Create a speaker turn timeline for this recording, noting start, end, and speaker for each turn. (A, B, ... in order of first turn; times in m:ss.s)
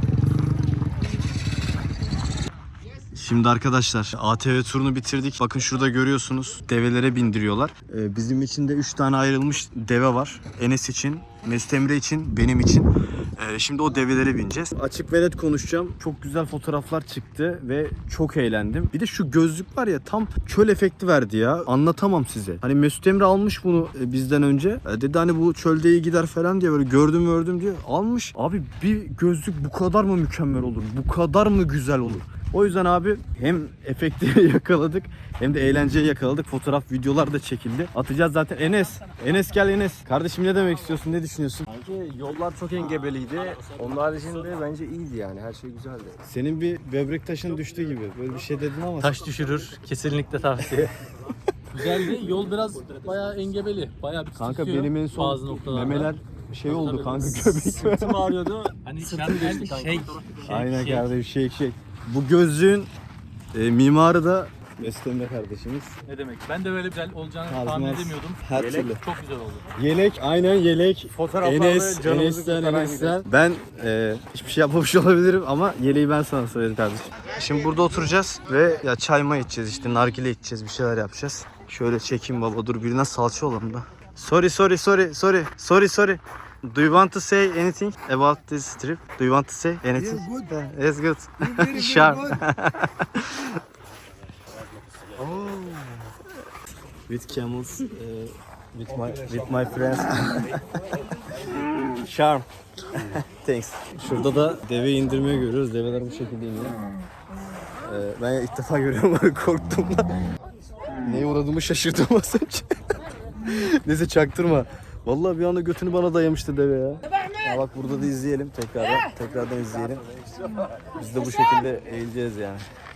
0:03.1-0:41.7 A
0:41.7-0:46.2 B
0:42.8-0:43.7 A
0:46.3-0:49.2 A
0:49.0-0:50.9 C
0:51.7-0:56.1 C
0:52.6-0:53.3 B
0:54.4-0:58.4 A
0:56.7-0:57.3 C
0:57.1-1:00.2 B
0:58.8-1:01.1 C
1:00.5-1:02.9 A
1:03.5-1:05.9 A
1:06.1-1:09.7 C
1:07.5-1:09.0 A
1:08.5-1:08.9 B
1:09.8-1:33.6 A
1:11.1-1:13.2 B
1:35.2-1:36.1 A
1:37.1-1:40.6 A
1:42.0-1:46.8 A
1:47.8-1:50.2 A
1:51.0-1:52.7 A
1:53.4-2:00.0 A
2:00.9-2:02.6 A